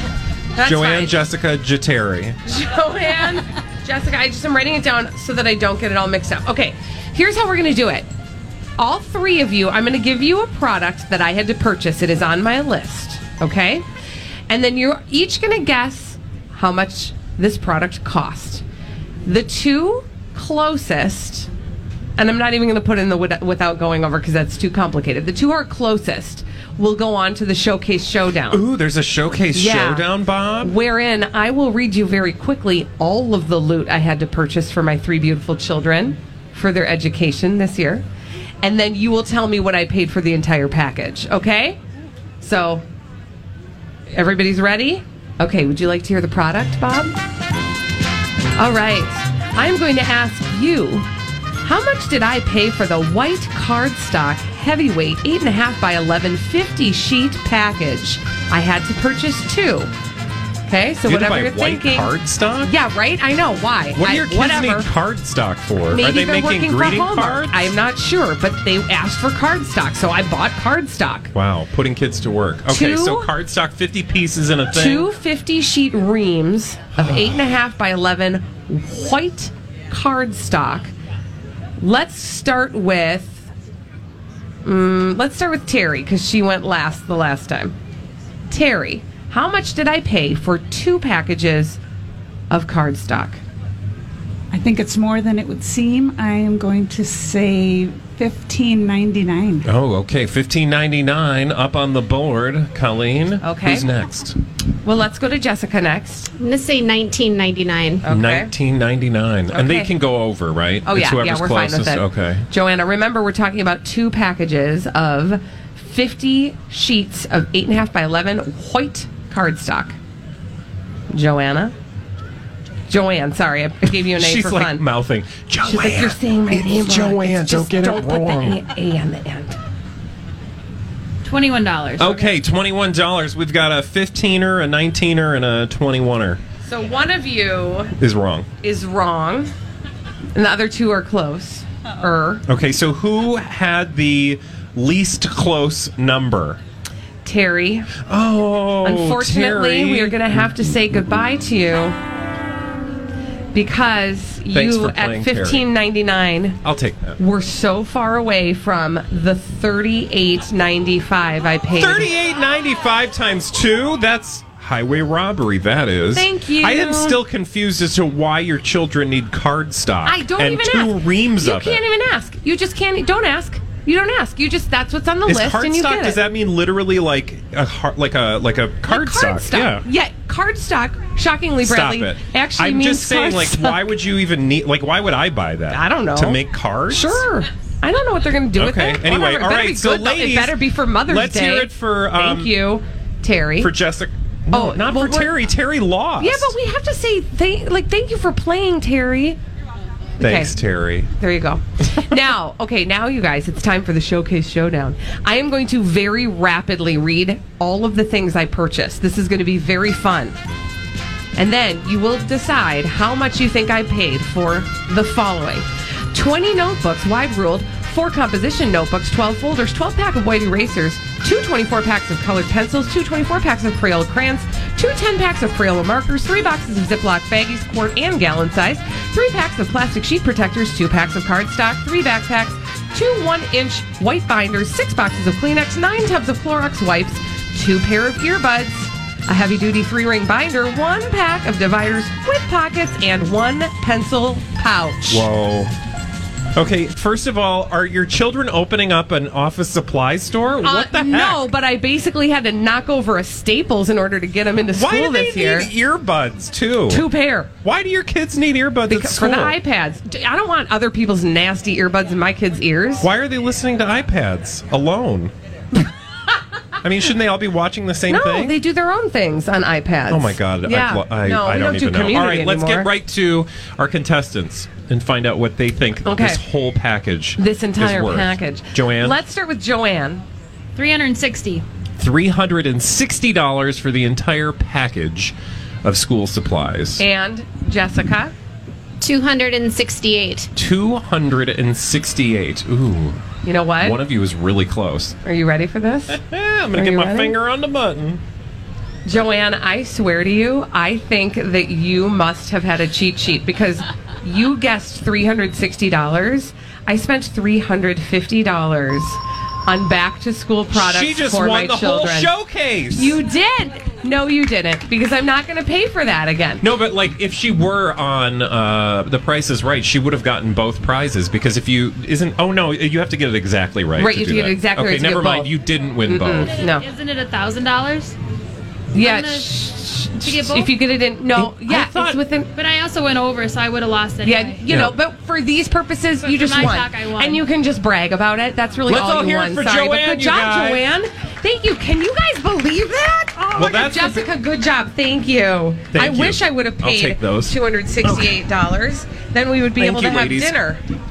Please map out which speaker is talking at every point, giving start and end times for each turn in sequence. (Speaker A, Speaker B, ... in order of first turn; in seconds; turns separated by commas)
Speaker A: 0.6-1.1, Speaker B: 0.6-2.4, Speaker A: 2.5-8.1, Speaker A: 8.8-13.8, Speaker A: 14.5-18.6, Speaker A: 19.2-21.5, Speaker A: 22.2-28.6, Speaker B: 28.5-30.7, Speaker A: 29.5-30.1, Speaker A: 30.6-38.0, Speaker A: 38.6-41.8, Speaker A: 42.4-42.9, Speaker A: 44.1-47.1, Speaker A: 48.6-51.1, Speaker A: 51.6-59.9, Speaker A: 60.7-62.1, Speaker B: 61.0-62.7, Speaker A: 62.6-64.9, Speaker B: 64.0-67.7, Speaker A: 65.9-71.3, Speaker B: 71.3-75.1, Speaker A: 72.7-73.3, Speaker A: 74.7-80.9, Speaker B: 77.0-77.4, Speaker A: 81.8-83.5, Speaker A: 84.6-87.7, Speaker A: 88.5-91.8, Speaker A: 92.5-93.4, Speaker C: 94.5-99.7, Speaker B: 99.6-104.4, Speaker A: 103.4-103.9, Speaker A: 104.8-106.3, Speaker D: 106.4-108.0, Speaker A: 108.0-108.5, Speaker B: 108.1-112.5, Speaker A: 109.5-109.9, Speaker A: 110.8-120.0, Speaker A: 121.1-121.7, Speaker A: 122.9-124.8, Speaker B: 123.9-128.6, Speaker A: 125.7-129.6, Speaker E: 131.2-132.3, Speaker B: 132.0-136.4, Speaker A: 136.7-137.9, Speaker B: 138.0-138.5, Speaker A: 138.6-139.5, Speaker A: 140.3-142.4, Speaker B: 142.5-146.6, Speaker A: 147.2-147.9, Speaker B: 148.1-150.6, Speaker A: 148.8-152.0, Speaker A: 153.5-156.6, Speaker B: 154.5-155.7, Speaker B: 156.6-157.2, Speaker A: 157.2-162.1, Speaker B: 161.8-171.8, Speaker A: 166.1-167.2, Speaker A: 170.0-176.2, Speaker B: 175.3-179.8, Speaker A: 178.8-183.8, Speaker B: 181.6-187.2, Speaker A: 185.7-193.7, Speaker B: 188.6-192.5, Speaker B: 193.6-196.5, Speaker A: 194.5-195.3, Speaker A: 196.2-199.4, Speaker A: 200.2-200.5, Speaker B: 200.2-201.1, Speaker A: 201.2-210.4, Speaker A: 211.3-245.2, Speaker B: 245.1-245.7, Speaker B: 246.5-251.5, Speaker A: 250.6-255.7, Speaker B: 254.7-257.0, Speaker A: 256.9-257.5, Speaker B: 257.6-259.6, Speaker A: 258.9-263.1, Speaker B: 263.0-265.3, Speaker B: 266.8-268.5, Speaker A: 268.1-272.9, Speaker B: 270.1-279.2, Speaker A: 276.1-276.4, Speaker A: 277.4-280.2, Speaker E: 280.8-281.6, Speaker B: 282.0-285.3, Speaker B: 285.8-287.0, Speaker A: 287.0-288.3, Speaker D: 289.0-290.5, Speaker B: 290.5-293.2, Speaker A: 293.4-294.0, Speaker B: 293.8-295.2, Speaker A: 295.2-296.2, Speaker B: 296.1-298.2, Speaker A: 296.7-297.4, Speaker A: 299.1-312.3, Speaker B: 310.7-313.2, Speaker A: 312.9-316.6, Speaker B: 316.6-326.5, Speaker A: 324.0-325.5, Speaker A: 326.1-326.8, Speaker E: 326.7-328.1, Speaker A: 328.9-332.5, Speaker E: 328.9-329.6, Speaker E: 330.2-330.7, Speaker B: 331.3-332.2, Speaker E: 332.5-334.6, Speaker A: 334.2-350.8, Speaker B: 334.7-334.9, Speaker E: 336.2-337.4, Speaker B: 338.9-340.9, Speaker B: 343.6-344.3, Speaker B: 345.9-348.4, Speaker B: 349.8-350.6